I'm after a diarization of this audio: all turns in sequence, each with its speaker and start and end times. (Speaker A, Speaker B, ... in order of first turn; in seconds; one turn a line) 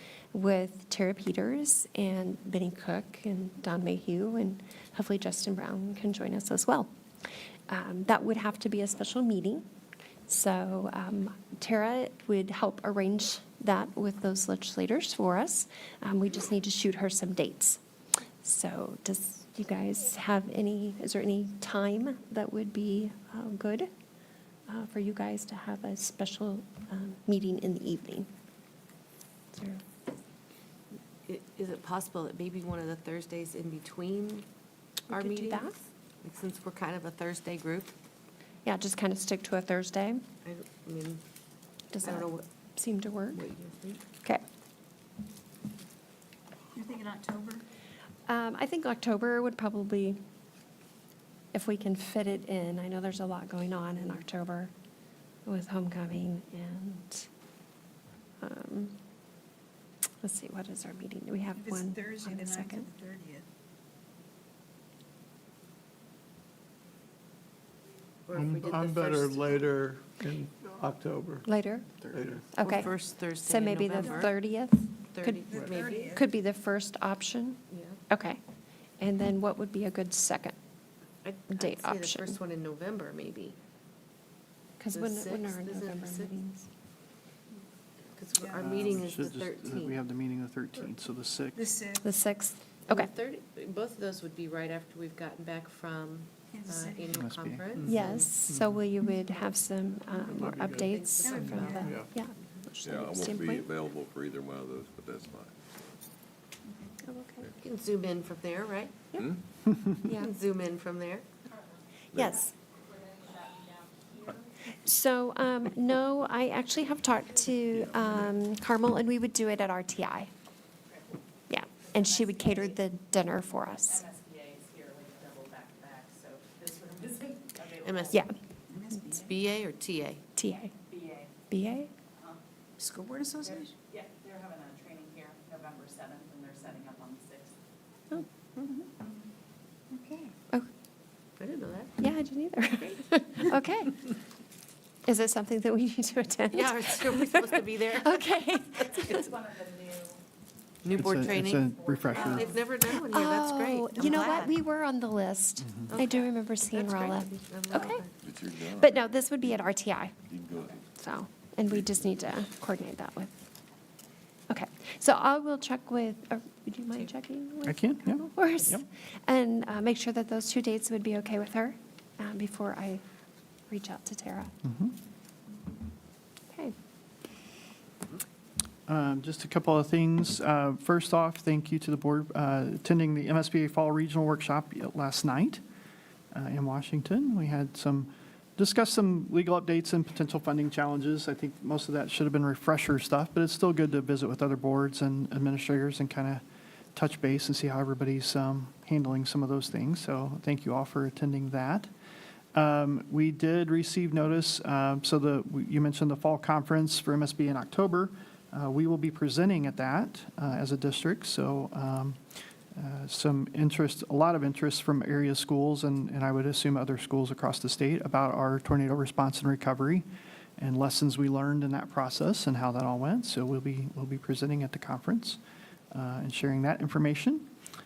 Speaker A: 0.3-6.9
Speaker A: 7.7-9.6
Speaker A: 10.3-17.8
Speaker A: 18.4-23.9
Speaker A: 24.7-28.3
Speaker A: 29.5-29.8
Speaker B: 31.3-34.4
Speaker A: 35.1-35.7
Speaker B: 35.1-37.9
Speaker A: 38.6-40.2
Speaker B: 40.4-41.2
Speaker A: 41.9-43.4
Speaker B: 42.0-42.4
Speaker B: 43.3-44.0
Speaker C: 46.8-47.6
Speaker A: 48.3-50.2
Speaker A: 51.5-54.7
Speaker A: 55.4-57.3
Speaker A: 58.4-59.0
Speaker A: 60.2-62.9
Speaker C: 61.5-63.4
Speaker B: 68.3-69.5
Speaker D: 68.3-71.5
Speaker A: 71.4-71.9
Speaker D: 72.1-72.4
Speaker A: 72.5-78.4
Speaker B: 72.6-74.3
Speaker B: 75.1-76.2
Speaker C: 75.5-76.2
Speaker B: 77.7-78.0
Speaker A: 79.0-80.5
Speaker B: 81.2-83.5
Speaker A: 81.5-82.4
Speaker A: 84.8-86.7
Speaker B: 84.9-86.3
Speaker B: 88.1-90.0
Speaker C: 88.4-88.7
Speaker E: 88.5-91.7
Speaker C: 91.5-92.1
Speaker A: 92.0-93.1
Speaker B: 92.9-98.3
Speaker C: 96.5-97.2
Speaker E: 97.1-97.8
Speaker A: 97.8-103.7
Speaker D: 98.5-98.8
Speaker D: 100.3-102.1
Speaker B: 100.7-101.9
Speaker C: 101.2-102.0
Speaker F: 102.8-105.5
Speaker A: 107.0-107.5
Speaker B: 107.6-109.1
Speaker A: 110.0-110.3
Speaker B: 110.1-111.2
Speaker A: 112.1-112.5
Speaker G: 112.9-114.4
Speaker A: 114.8-120.3
Speaker A: 121.5-124.0
Speaker G: 122.0-122.6
Speaker G: 124.0-128.1
Speaker B: 127.8-128.2
Speaker C: 128.7-129.1
Speaker B: 129.0-130.2
Speaker A: 130.4-130.7
Speaker G: 130.9-131.3
Speaker A: 131.5-131.9
Speaker C: 132.8-133.6
Speaker G: 133.4-137.5
Speaker B: 141.4-142.0
Speaker A: 142.0-144.1
Speaker A: 145.1-149.3
Speaker B: 146.5-149.3
Speaker G: 149.0-150.2
Speaker B: 150.8-154.6
Speaker E: 150.9-152.6
Speaker G: 151.9-152.5
Speaker A: 153.0-158.0
Speaker B: 155.9-158.1
Speaker F: 158.2-159.5
Speaker A: 158.6-160.1
Speaker F: 160.3-160.8
Speaker A: 160.9-163.5
Speaker A: 164.5-173.0
Speaker E: 167.7-168.8
Speaker A: 173.7-174.5
Speaker E: 174.6-174.9
Speaker A: 176.5-176.7
Speaker E: 178.9-185.6
Speaker E: 186.3-196.4
Speaker E: 196.9-201.9
Speaker E: 202.5-212.2
Speaker E: 212.7-220.0
Speaker E: 220.6-225.4
Speaker E: 225.9-227.5